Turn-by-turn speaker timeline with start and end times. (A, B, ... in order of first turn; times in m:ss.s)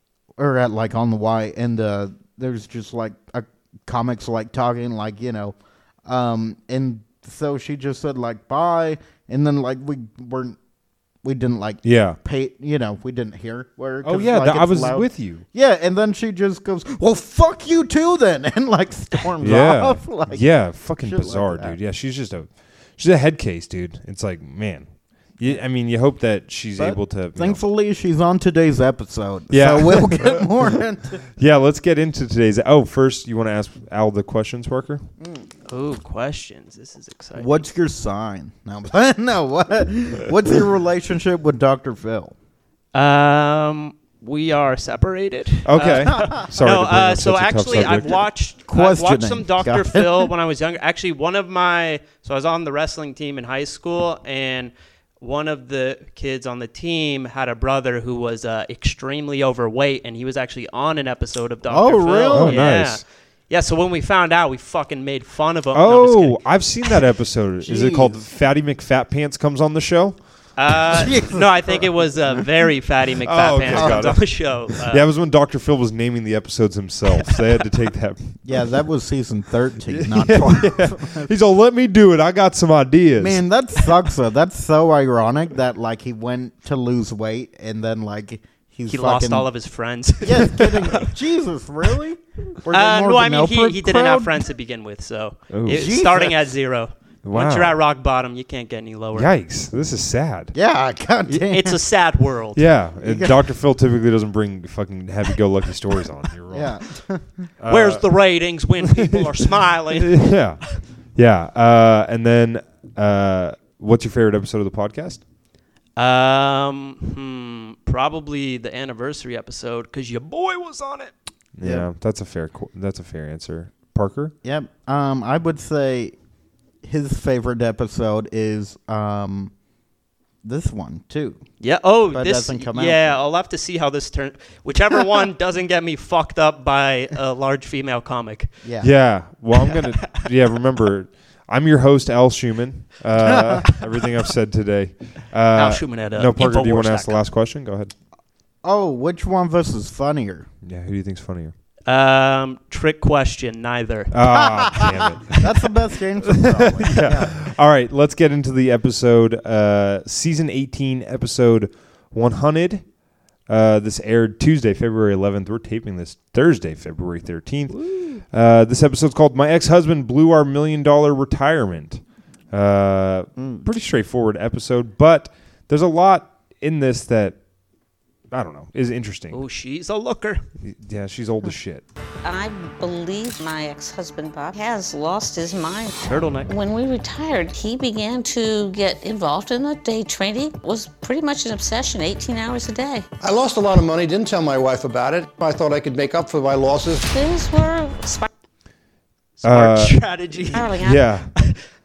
0:00.4-0:05.6 A
0:06.1-0:10.6 A
0:11.2-0:20.5 A
0:11.8-0:12.2 B
0:14.0-0:15.4 B
0:19.4-0:27.6 B
0:21.0-0:21.8 A
0:26.8-0:31.2 A
0:29.5-0:30.7 B
0:31.4-0:35.0 B
0:35.2-0:35.5 A
0:35.7-0:37.7 C
0:37.4-0:42.3 A
0:42.9-1:06.4 C
0:45.6-0:48.2 B
0:48.7-0:50.3 A
1:01.7-1:02.7 A
1:02.3-1:03.0 B
1:05.7-1:10.2 B
1:07.6-1:08.2 A
1:10.6-1:15.0 C
1:10.9-1:12.4 A
1:13.2-1:18.3 B
1:13.7-1:14.2 A
1:18.4-1:21.3 A
1:19.9-1:23.4 B
1:23.2-1:29.5 A
1:28.9-1:31.1 C
1:30.2-1:34.5 A
1:32.7-1:39.3 C
1:35.5-1:36.0 B
1:35.7-1:36.4 A
1:37.2-1:37.8 B
1:39.1-1:40.5 B
1:40.5-1:41.8 A
1:41.3-1:42.6 C
1:42.6-1:46.8 B
1:43.0-1:43.4 A
1:46.5-1:47.5 A
1:47.6-1:48.0 B
1:47.7-1:50.3 C
1:48.8-1:50.6 B
1:51.2-1:55.2 B
1:56.0-2:01.1 C
2:01.6-2:04.3 B
2:01.6-2:01.9 A
2:04.4-2:06.1 A
2:06.8-2:09.5 A
2:10.4-2:11.4 A
2:11.6-2:18.5 C
2:12.1-2:13.2 A
2:18.6-2:18.9 A
2:18.8-2:27.9 B
2:25.6-2:27.2 C
2:28.6-2:30.5 A
2:30.6-2:31.5 B
2:31.9-2:34.1 C
2:34.1-2:35.7 B
2:34.3-2:37.4 A
2:36.3-2:42.8 B
2:43.5-2:57.4 B
2:53.4-2:53.6 A
2:58.3-2:59.4 B
2:59.3-3:00.4 C
3:00.6-3:01.8 B
3:02.2-3:05.9 D
3:06.1-3:06.5 C
3:06.5-3:13.0 D
3:13.2-3:17.1 E
3:17.1-3:18.3 D
3:19.4-3:20.8 C
3:19.4-3:20.0 B
3:20.5-3:21.0 D
3:20.8-3:21.3 B